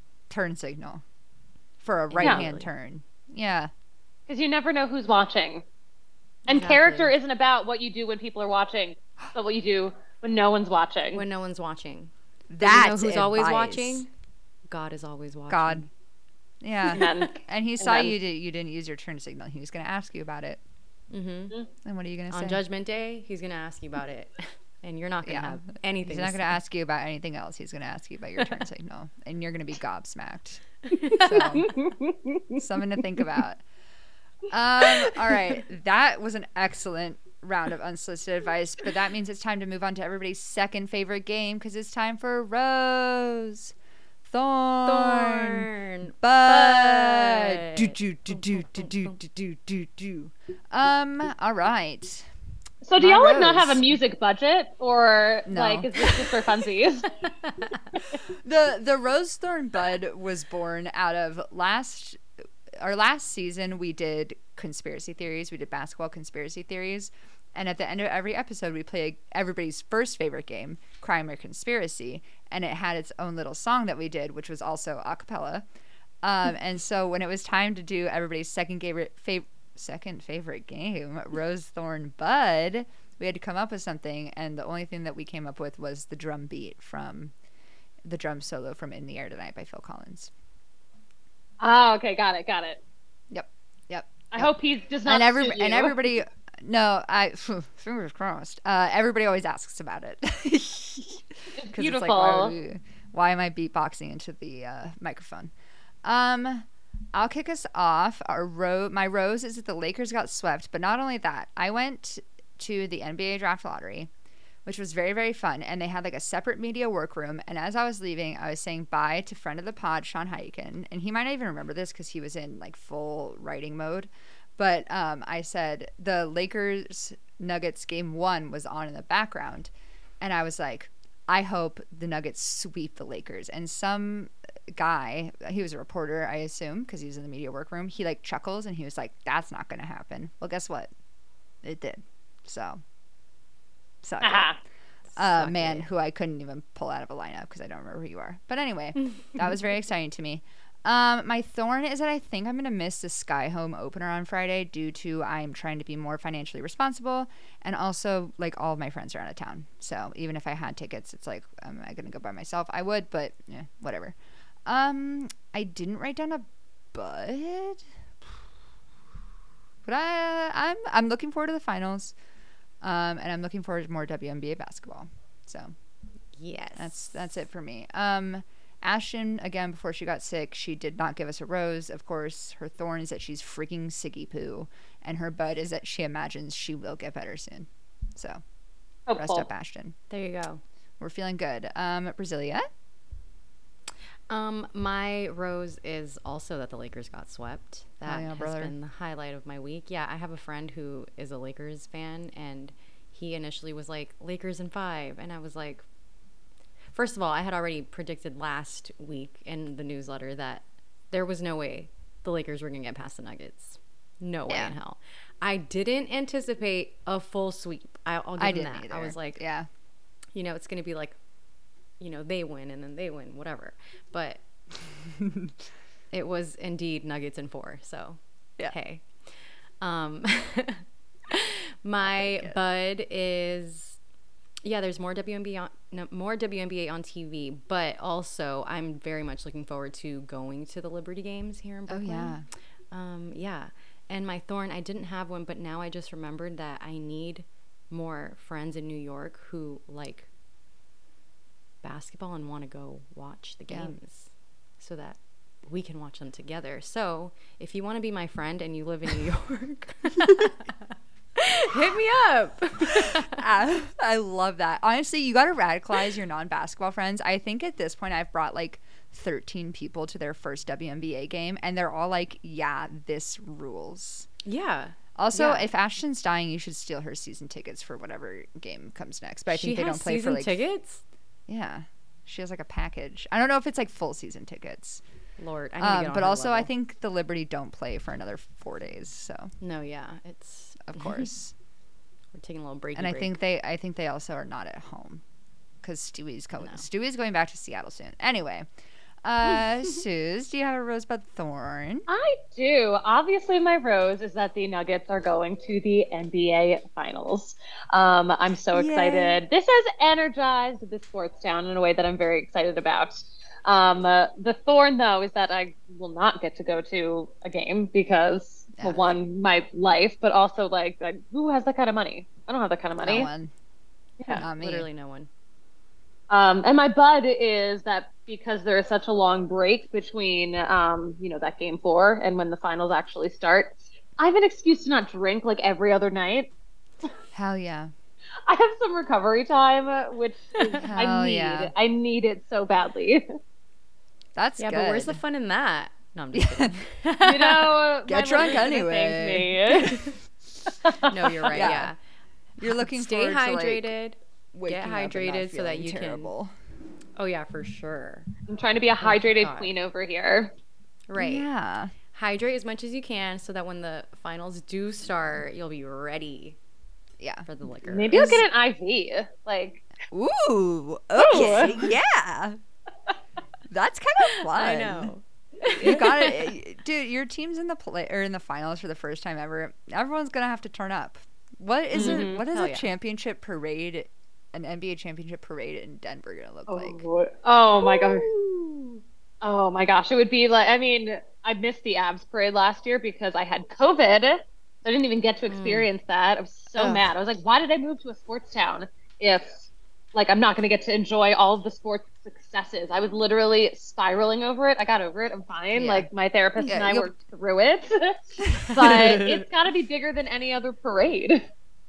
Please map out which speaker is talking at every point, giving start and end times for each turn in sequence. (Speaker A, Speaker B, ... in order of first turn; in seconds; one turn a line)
Speaker A: 0.3-1.0
Speaker A: 1.8-3.7
Speaker B: 2.1-2.7
Speaker C: 4.3-5.6
Speaker C: 6.5-11.2
Speaker B: 6.5-7.1
Speaker B: 11.1-14.1
Speaker A: 12.5-14.1
Speaker B: 14.7-15.9
Speaker A: 15.5-15.8
Speaker A: 16.6-20.6
Speaker B: 16.9-17.4
Speaker C: 16.9-18.1
Speaker B: 21.1-21.6
Speaker A: 21.8-22.6
Speaker B: 22.3-26.6
Speaker A: 25.2-30.6
Speaker B: 30.9-31.6
Speaker A: 31.1-31.7
Speaker C: 31.3-32.6
Speaker A: 32.6-33.6
Speaker A: 34.5-43.7
Speaker A: 44.2-52.3
Speaker B: 44.9-49.2
Speaker C: 52.8-57.1
Speaker A: 53.0-53.8
Speaker A: 55.5-56.1
Speaker B: 57.2-58.0
Speaker A: 58.3-62.2
Speaker A: 62.8-75.7
Speaker A: 76.2-87.3
Speaker A: 88.0-90.3
Speaker C: 91.6-92.8
Speaker A: 93.3-94.5
Speaker C: 94.3-96.0
Speaker A: 95.1-105.5
Speaker C: 101.6-102.5
Speaker A: 106.0-114.1
Speaker A: 114.7-140.9
Speaker A: 141.6-142.8
Speaker A: 144.0-144.5
Speaker C: 144.2-144.6
Speaker B: 145.1-145.9
Speaker A: 145.2-168.3
Speaker A: 169.8-172.2
Speaker A: 172.8-175.8
Speaker B: 176.4-177.3
Speaker A: 176.8-188.4
Speaker C: 189.1-189.5
Speaker A: 189.2-190.0
Speaker B: 190.1-190.6
Speaker A: 191.0-192.7
Speaker B: 194.3-205.8
Speaker A: 198.0-198.7
Speaker B: 206.9-219.4
Speaker A: 214.5-214.8
Speaker A: 218.4-219.7
Speaker B: 220.3-221.2
Speaker B: 222.0-224.4
Speaker A: 225.2-225.5
Speaker B: 226.1-234.0
Speaker A: 232.0-232.6
Speaker B: 234.7-242.4
Speaker A: 241.9-242.5
Speaker B: 242.9-250.3
Speaker B: 251.8-260.7
Speaker A: 253.7-254.0
Speaker B: 261.4-263.4
Speaker A: 262.9-274.3
Speaker B: 274.4-275.7
Speaker A: 275.1-280.6
Speaker B: 279.5-281.0
Speaker A: 281.5-285.0
Speaker B: 285.4-286.7
Speaker A: 285.8-289.5
Speaker B: 289.6-291.3
Speaker A: 290.8-291.5
Speaker B: 292.3-293.4
Speaker A: 293.0-295.2
Speaker A: 295.8-298.7
Speaker B: 296.6-296.8
Speaker A: 299.2-302.1
Speaker C: 302.1-323.3
Speaker A: 308.7-309.4
Speaker A: 318.8-319.1
Speaker A: 323.0-323.5
Speaker B: 324.3-325.3
Speaker A: 324.3-324.9
Speaker C: 326.3-336.5
Speaker A: 337.3-337.9
Speaker C: 338.5-343.2
Speaker B: 340.6-340.8
Speaker A: 340.8-341.7
Speaker A: 344.4-345.2
Speaker B: 344.6-347.8
Speaker A: 346.3-346.8
Speaker C: 347.3-349.9
Speaker A: 348.1-350.1
Speaker B: 349.8-350.1
Speaker C: 350.9-351.5
Speaker B: 351.0-352.0
Speaker A: 351.5-351.9
Speaker B: 352.6-356.3
Speaker A: 352.6-353.9
Speaker A: 354.5-356.5
Speaker B: 357.2-358.3
Speaker C: 358.5-360.5
Speaker B: 359.0-359.7
Speaker B: 361.1-361.5
Speaker A: 361.2-361.9
Speaker B: 362.1-366.6
Speaker A: 367.2-367.5
Speaker B: 367.4-368.4
Speaker C: 367.9-369.9
Speaker A: 368.1-368.4
Speaker A: 370.1-372.6
Speaker C: 371.2-371.9
Speaker A: 373.7-375.1
Speaker B: 374.2-376.5
Speaker A: 375.8-387.1
Speaker B: 381.9-382.9
Speaker C: 381.9-382.4
Speaker C: 386.7-388.3
Speaker A: 388.2-388.6
Speaker C: 389.4-411.4
Speaker B: 395.5-395.9
Speaker A: 396.8-397.1
Speaker B: 405.7-406.1
Speaker A: 406.6-407.1
Speaker A: 408.4-409.4